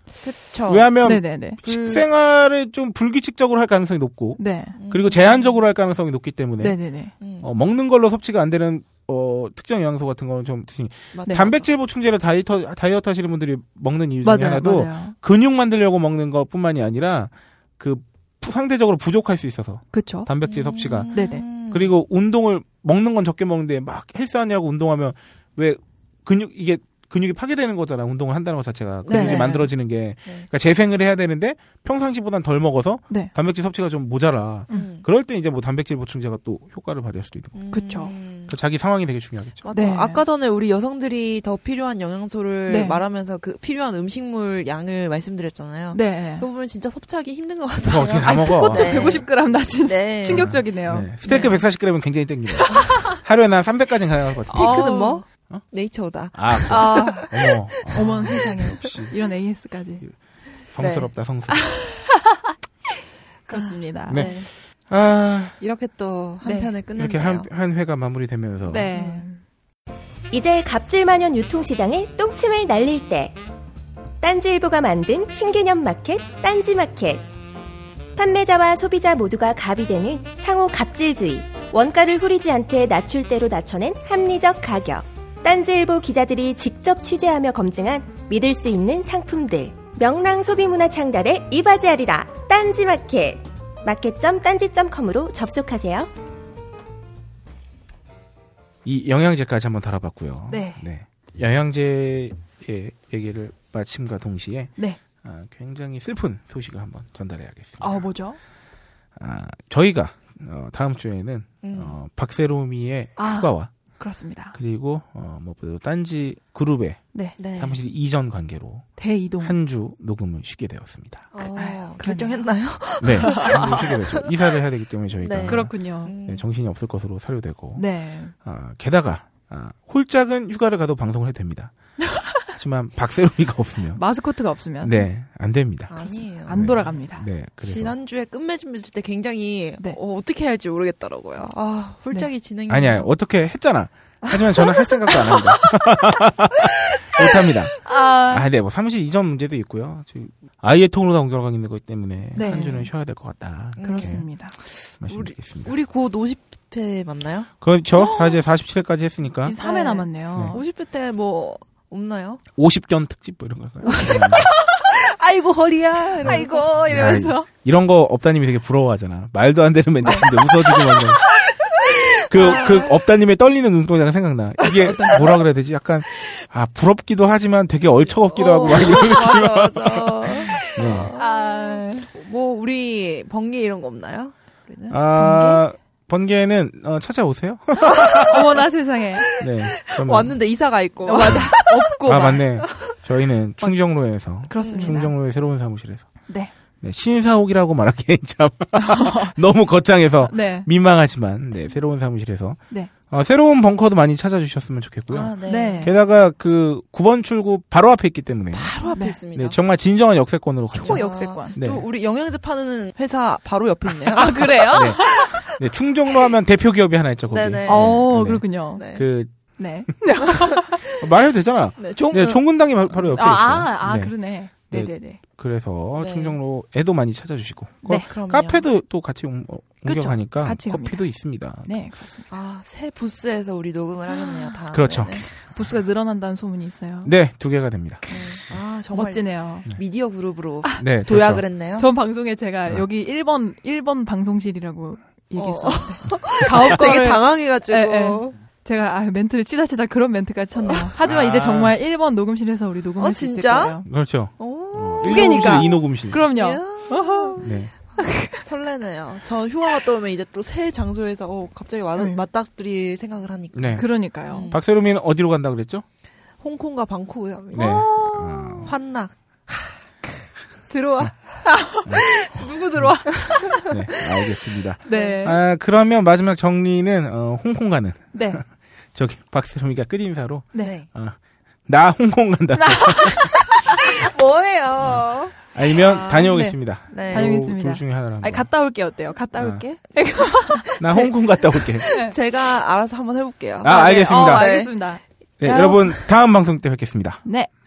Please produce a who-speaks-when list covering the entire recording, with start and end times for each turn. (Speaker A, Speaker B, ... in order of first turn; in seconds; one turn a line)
Speaker A: 0.2-1.0
Speaker B: 0.7-6.8
Speaker C: 1.0-1.6
Speaker A: 1.6-2.0
Speaker C: 4.4-4.8
Speaker A: 4.8-5.5
Speaker C: 6.6-7.1
Speaker A: 7.2-7.5
Speaker B: 7.4-21.1
Speaker A: 11.1-11.7
Speaker C: 14.2-15.2
Speaker C: 19.9-20.3
Speaker A: 20.4-21.9
Speaker C: 21.1-21.4
Speaker B: 21.6-37.5
Speaker A: 29.1-29.7
Speaker C: 29.1-29.6
Speaker A: 34.7-35.0
Speaker A: 37.5-38.5
Speaker C: 37.7-38.1
Speaker B: 38.5-39.7
Speaker A: 39.6-49.3
Speaker C: 39.7-40.2
Speaker C: 42.7-43.0
Speaker C: 45.9-46.4
Speaker B: 47.8-49.2
Speaker C: 48.2-51.6
Speaker A: 49.8-50.6
Speaker B: 50.2-54.9
Speaker A: 51.3-51.6
Speaker C: 52.5-53.1
Speaker A: 52.7-53.0
Speaker C: 54.5-55.2
Speaker A: 54.5-58.4
Speaker B: 56.3-59.1
Speaker C: 56.6-57.3
Speaker C: 57.9-60.0
Speaker B: 60.7-61.7
Speaker A: 60.8-61.1
Speaker C: 61.5-62.5
Speaker A: 63.5-64.5
Speaker C: 63.5-64.2
Speaker B: 64.1-65.6
Speaker A: 65.6-67.5
Speaker C: 66.4-66.7
Speaker B: 67.0-68.9
Speaker C: 68.7-69.4
Speaker A: 68.9-69.2
Speaker D: 70.3-73.4
Speaker D: 74.2-77.3
Speaker D: 78.2-96.1
Speaker B: 98.8-104.7
Speaker C: 100.5-100.8
Speaker B: 105.2-108.1
Speaker C: 107.8-108.4
Speaker B: 109.2-113.7
Speaker A: 111.6-111.9
Speaker C: 113.2-114.6
Speaker B: 114.5-117.0
Speaker A: 117.4-117.8
Speaker B: 117.6-118.9
Speaker C: 119.0-119.5
Speaker B: 119.4-121.3
Speaker A: 121.3-124.3
Speaker C: 121.5-122.6
Speaker B: 123.0-127.8
Speaker C: 123.2-123.8
Speaker A: 125.2-126.4
Speaker C: 125.5-126.1
Speaker C: 127.7-128.3
Speaker B: 128.4-131.7
Speaker B: 132.5-134.0
Speaker C: 133.9-135.1
Speaker B: 134.8-138.0
Speaker A: 135.9-136.7
Speaker C: 136.4-137.2
Speaker A: 137.6-143.1
Speaker B: 142.7-154.3
Speaker A: 144.2-145.4
Speaker C: 147.8-148.5
Speaker C: 152.3-152.9
Speaker A: 153.8-154.2
Speaker C: 153.8-154.6
Speaker B: 155.0-155.7
Speaker A: 155.1-157.5
Speaker B: 157.6-159.6
Speaker C: 157.9-158.4
Speaker C: 159.4-160.6
Speaker A: 159.6-162.4
Speaker B: 162.6-164.5
Speaker A: 163.9-167.3
Speaker C: 166.2-167.5
Speaker B: 166.2-171.2
Speaker A: 170.0-173.0
Speaker B: 172.3-181.1
Speaker A: 174.8-175.4
Speaker C: 174.9-175.3
Speaker A: 178.0-185.0
Speaker C: 178.7-178.9
Speaker C: 180.4-182.1
Speaker B: 184.9-188.4
Speaker C: 185.2-185.6
Speaker A: 187.8-188.6
Speaker C: 188.1-189.3
Speaker A: 189.3-191.8
Speaker B: 189.4-190.4
Speaker C: 191.1-192.4
Speaker B: 191.2-196.1
Speaker A: 192.6-192.9
Speaker C: 194.4-195.1
Speaker A: 194.6-195.0
Speaker B: 196.8-202.6
Speaker C: 198.8-199.3
Speaker C: 200.2-200.7
Speaker B: 203.1-208.7
Speaker A: 205.1-205.9
Speaker C: 205.5-205.9
Speaker A: 208.5-209.6
Speaker C: 208.9-209.2
Speaker B: 209.3-211.8
Speaker C: 210.7-211.6
Speaker A: 210.8-215.5
Speaker C: 214.1-215.3
Speaker B: 214.7-219.3
Speaker A: 217.3-218.1
Speaker C: 217.7-218.8
Speaker A: 218.8-219.0
Speaker C: 219.6-220.8
Speaker A: 220.3-221.0
Speaker B: 220.8-224.2
Speaker A: 221.8-222.4
Speaker C: 223.1-225.2
Speaker B: 224.7-231.7
Speaker A: 226.0-226.4
Speaker A: 227.9-228.6
Speaker C: 229.8-231.1
Speaker C: 231.7-232.3
Speaker A: 232.3-235.2
Speaker C: 234.1-234.6
Speaker B: 234.7-235.2
Speaker C: 235.3-237.1
Speaker B: 237.1-238.0
Speaker A: 238.1-241.9
Speaker C: 238.9-239.7
Speaker B: 240.8-241.4
Speaker C: 241.8-253.9
Speaker A: 245.4-248.4
Speaker B: 251.0-251.8
Speaker A: 253.0-253.8
Speaker B: 253.9-256.2
Speaker A: 254.4-257.4
Speaker C: 255.0-257.4
Speaker B: 257.4-257.7
Speaker A: 257.9-264.6
Speaker C: 258.0-258.4
Speaker B: 263.5-263.9
Speaker C: 263.7-264.5
Speaker B: 264.5-265.9
Speaker A: 266.4-267.9
Speaker C: 267.5-268.7
Speaker B: 267.5-268.7
Speaker A: 268.6-269.8
Speaker A: 270.7-271.4
Speaker C: 271.4-273.5
Speaker A: 271.9-272.5
Speaker A: 273.1-274.1
Speaker B: 273.6-283.5
Speaker C: 274.9-275.4
Speaker A: 274.9-275.2
Speaker C: 278.1-278.4
Speaker A: 280.6-280.9
Speaker C: 282.6-283.4
Speaker A: 283.5-287.3
Speaker B: 285.5-288.5
Speaker C: 287.1-290.7
Speaker A: 290.3-294.8
Speaker B: 290.8-291.9
Speaker C: 291.9-292.1
Speaker B: 293.6-294.5
Speaker C: 293.6-295.8
Speaker B: 295.4-297.2
Speaker A: 295.4-295.9
Speaker C: 297.2-297.5